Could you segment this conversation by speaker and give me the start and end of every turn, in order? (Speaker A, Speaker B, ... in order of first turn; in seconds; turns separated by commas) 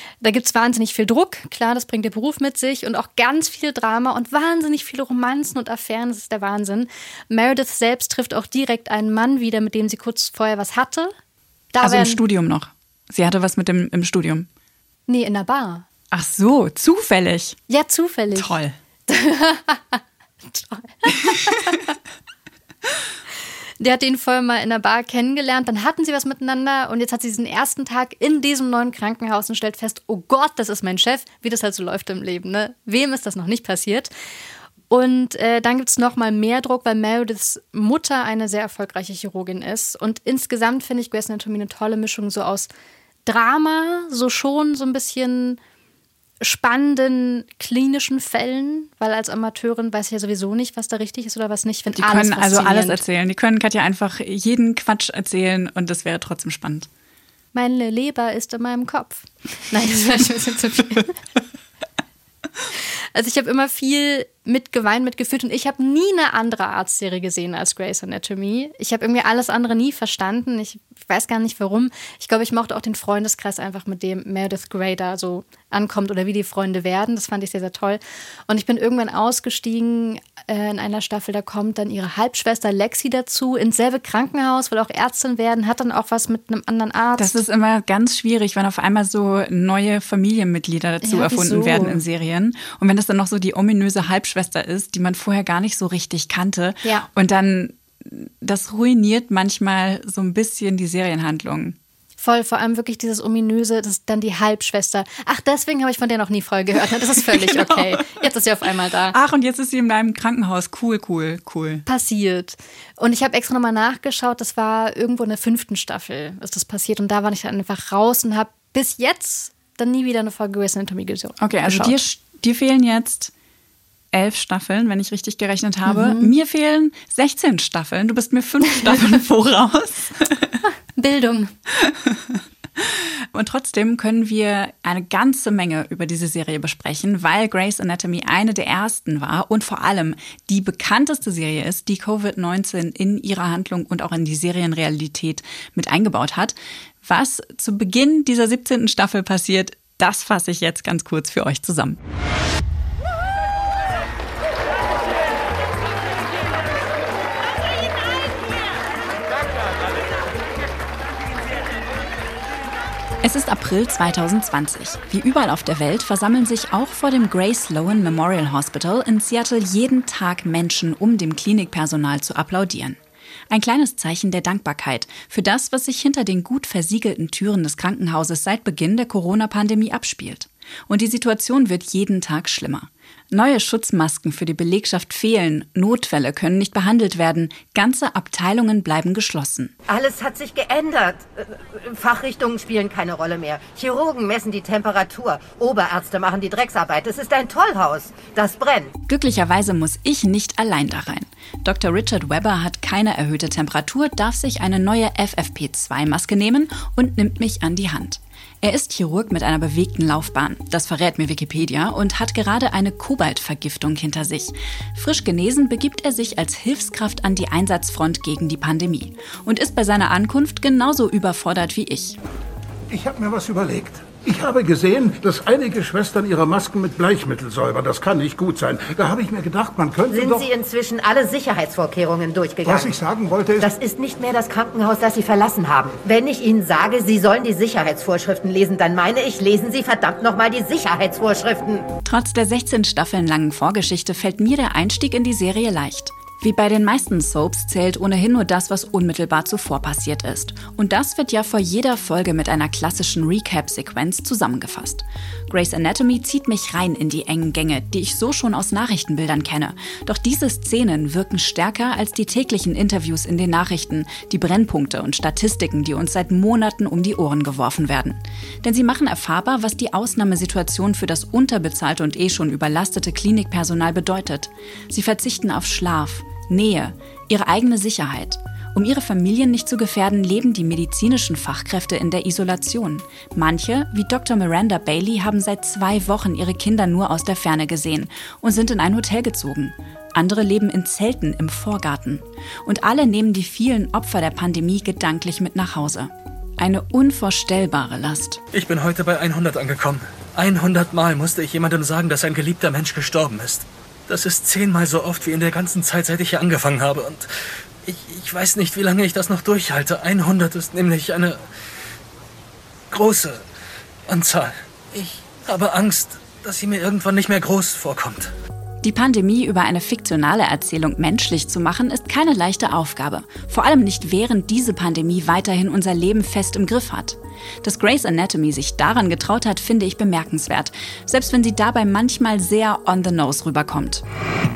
Speaker A: 0.2-11.1, Speaker A: 11.7-12.2, Speaker B: 11.8-14.5, Speaker A: 15.1-15.9, Speaker B: 16.1-17.6, Speaker A: 17.7-18.6, Speaker B: 18.3-18.8, Speaker A: 19.1-21.8, Speaker A: 23.8-34.1, Speaker A: 34.9-42.7, Speaker A: 43.2-45.6, Speaker A: 46.4-53.0, Speaker B: 51.9-56.9, Speaker A: 57.5-61.1, Speaker A: 63.1-87.4, Speaker B: 87.2-101.8, Speaker A: 91.0-92.0, Speaker A: 102.2-109.2, Speaker B: 107.3-108.1, Speaker B: 109.1-111.8, Speaker A: 111.8-122.0, Speaker B: 121.4-123.3, Speaker B: 124.1-130.6, Speaker A: 125.8-126.3, Speaker A: 131.0-131.5, Speaker B: 131.7-152.0, Speaker B: 163.2-173.0, Speaker B: 173.5-189.7, Speaker C: 189.9-198.9, Speaker B: 199.1-222.2, Speaker D: 222.9-230.5, Speaker C: 230.1-233.0, Speaker D: 232.6-233.7, Speaker C: 233.6-241.9, Speaker B: 242.0-298.4, Speaker E: 298.5-307.3, Speaker E: 307.8-311.4, Speaker E: 312.9-313.4, Speaker E: 314.1-318.3, Speaker B: 318.8-334.0